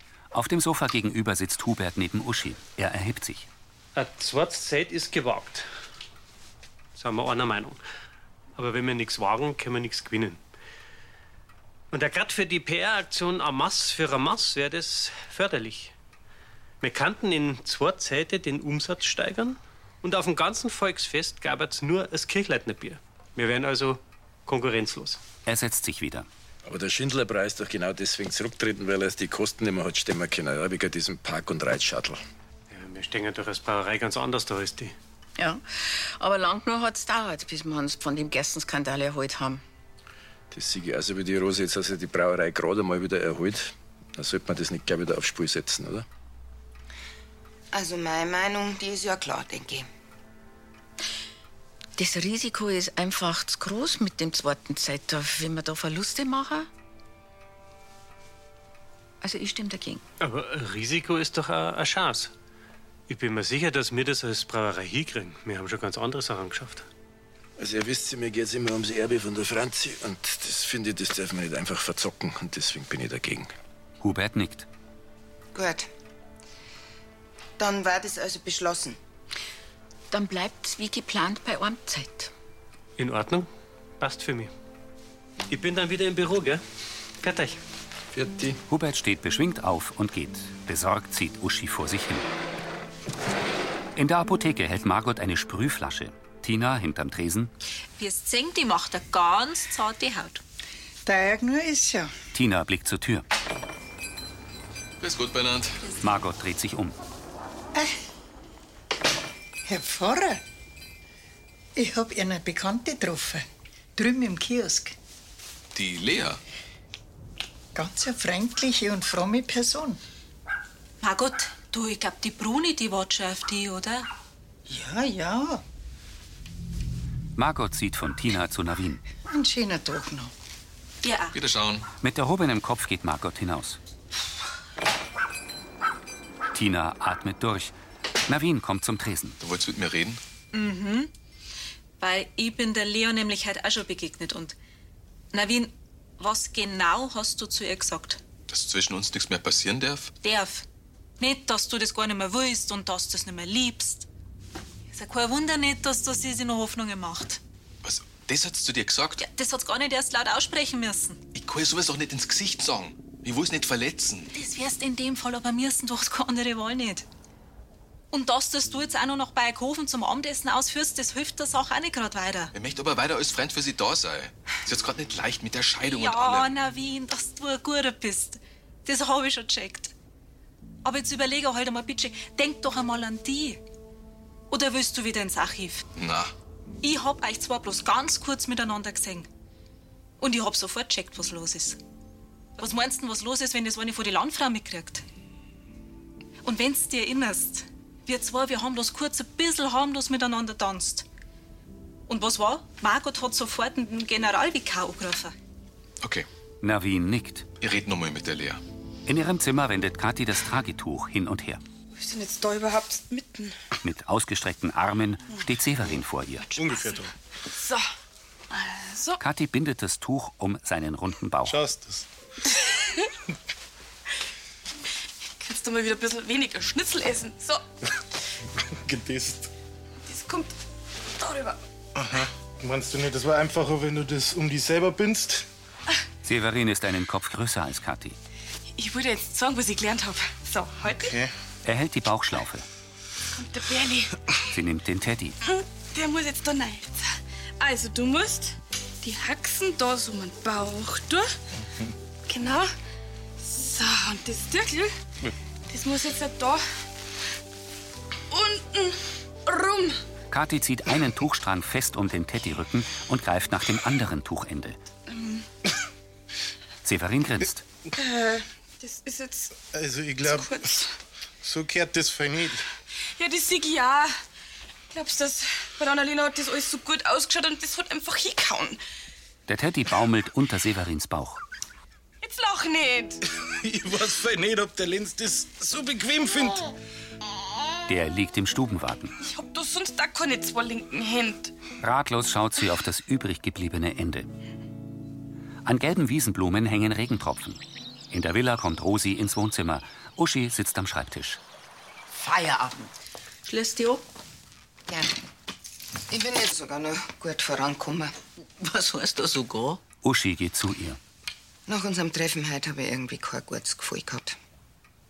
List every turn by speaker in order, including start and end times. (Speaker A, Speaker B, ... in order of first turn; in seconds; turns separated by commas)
Speaker A: 0.3-3.5, Speaker B: 4.0-5.7, Speaker B: 7.0-7.8, Speaker B: 8.6-10.4, Speaker B: 11.9-15.9, Speaker B: 16.8-25.2, Speaker A: 25.5-26.3, Speaker C: 26.6-32.2, Speaker B: 32.7-35.0, Speaker D: 35.4-39.6, Speaker C: 40.5-46.1, Speaker E: 47.7-49.9, Speaker D: 52.0-56.7, Speaker D: 59.2-60.0, Speaker B: 60.2-62.3, Speaker B: 63.1-66.8, Speaker C: 67.6-73.5, Speaker A: 74.0-74.7, Speaker E: 75.5-75.9, Speaker E: 77.6-79.0, Speaker D: 80.1-82.3, Speaker B: 83.0-83.5, Speaker B: 84.0-84.5, Speaker B: 85.5-86.6, Speaker B: 87.2-87.6, Speaker C: 88.1-88.6, Speaker A: 88.7-92.3, Speaker A: 94.0-97.5, Speaker F: 98.0-100.4, Speaker G: 101.1-102.1, Speaker A: 102.3-103.2, Speaker H: 105.0-105.8, Speaker A: 106.0-107.0, Speaker G: 109.7-110.4, Speaker G: 111.8-115.0, Speaker H: 115.7-116.4, Speaker G: 117.8-120.0, Speaker F: 121.0-124.1, Speaker G: 124.7-125.6, Speaker A: 127.4-129.0, Speaker G: 129.3-130.3, Speaker F: 131.0-131.4, Speaker H: 131.3-131.9, Speaker A: 132.0-133.8, Speaker A: 136.5-137.7, Speaker A: 138.3-139.4, Speaker H: 139.4-140.2, Speaker F: 140.5-141.1, Speaker F: 142.0-144.6, Speaker F: 145.3-148.2, Speaker H: 148.5-150.1, Speaker F: 150.2-150.7, Speaker F: 151.2-154.1, Speaker F: 154.9-157.4, Speaker H: 157.8-159.2, Speaker F: 159.2-161.2, Speaker H: 161.3-164.3, Speaker F: 164.3-167.1, Speaker F: 168.1-172.5, Speaker H: 172.5-176.6, Speaker F: 175.8-179.9, Speaker F: 180.8-183.6, Speaker F: 184.5-185.9, Speaker H: 185.9-186.3, Speaker F: 186.8-189.3, Speaker F: 190.2-191.8, Speaker F: 192.6-195.0, Speaker F: 196.4-201.1, Speaker F: 202.1-205.3, Speaker H: 206.0-206.3, Speaker A: 206.6-207.5, Speaker H: 207.6-208.6, Speaker A: 209.1-211.6, Speaker I: 211.9-213.6, Speaker A: 213.8-216.5, Speaker J: 216.6-217.1, Speaker I: 217.6-217.8, Speaker I: 218.5-219.2, Speaker A: 219.2-221.6, Speaker J: 221.4-222.1, Speaker I: 225.4-227.6, Speaker J: 228.7-229.5, Speaker I: 230.1-230.6, Speaker I: 231.2-231.6, Speaker J: 231.9-235.5, Speaker A: 236.2-238.2, Speaker I: 238.8-241.2, Speaker J: 240.9-241.3, Speaker A: 241.6-242.7, Speaker I: 243.3-244.2, Speaker A: 244.5-245.4, Speaker I: 245.5-247.0, Speaker I: 247.6-251.3, Speaker I: 252.3-252.7, Speaker I: 253.4-254.9, Speaker I: 255.7-256.6, Speaker I: 258.3-260.0, Speaker A: 260.3-264.8, Speaker I: 265.1-265.4, Speaker A: 266.8-267.6, Speaker I: 267.9-269.6, Speaker J: 269.6-270.7, Speaker I: 270.2-270.9, Speaker J: 271.4-272.6, Speaker I: 273.1-274.1, Speaker I: 274.9-278.8, Speaker A: 279.5-281.4, Speaker I: 282.2-283.2, Speaker J: 283.6-286.7, Speaker A: 287.9-289.1, Speaker I: 289.2-291.5, Speaker A: 291.8-294.3, Speaker A: 295.6-301.4, Speaker D: 302.2-302.9, Speaker D: 303.4-304.0, Speaker E: 306.1-308.1, Speaker D: 308.6-309.8, Speaker A: 310.0-311.0, Speaker E: 311.7-314.4